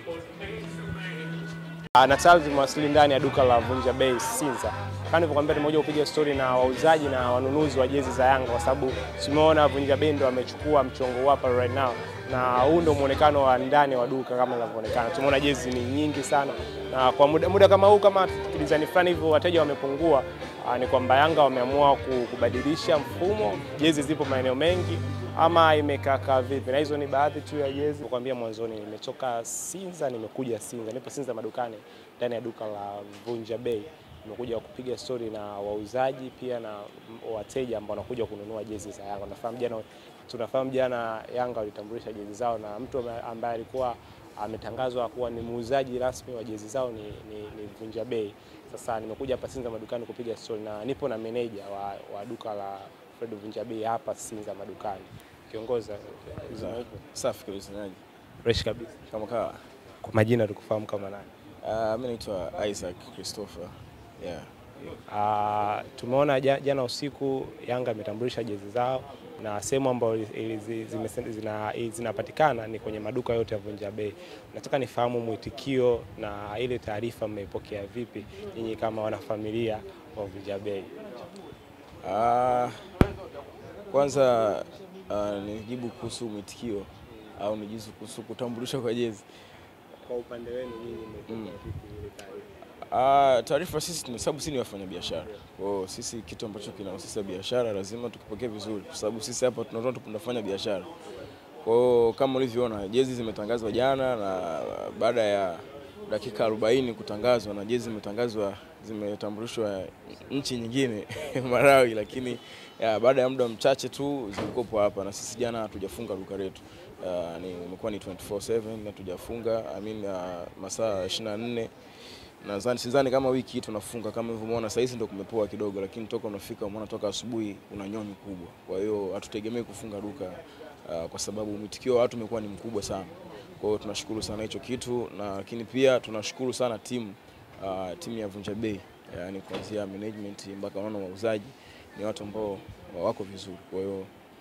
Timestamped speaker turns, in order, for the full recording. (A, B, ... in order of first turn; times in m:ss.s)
0:01.9-0:57.0 A
0:56.5-0:58.0 B
0:58.4-0:59.0 A
0:59.1-0:59.6 B
1:00.0-1:01.3 A
1:01.6-1:05.0 B
1:05.1-1:21.0 A
1:22.0-1:22.8 B
1:23.9-1:29.2 B
1:30.0-1:32.5 A
1:31.3-1:31.5 B
1:32.9-1:40.9 B
1:41.6-2:01.7 B
2:02.4-2:24.1 B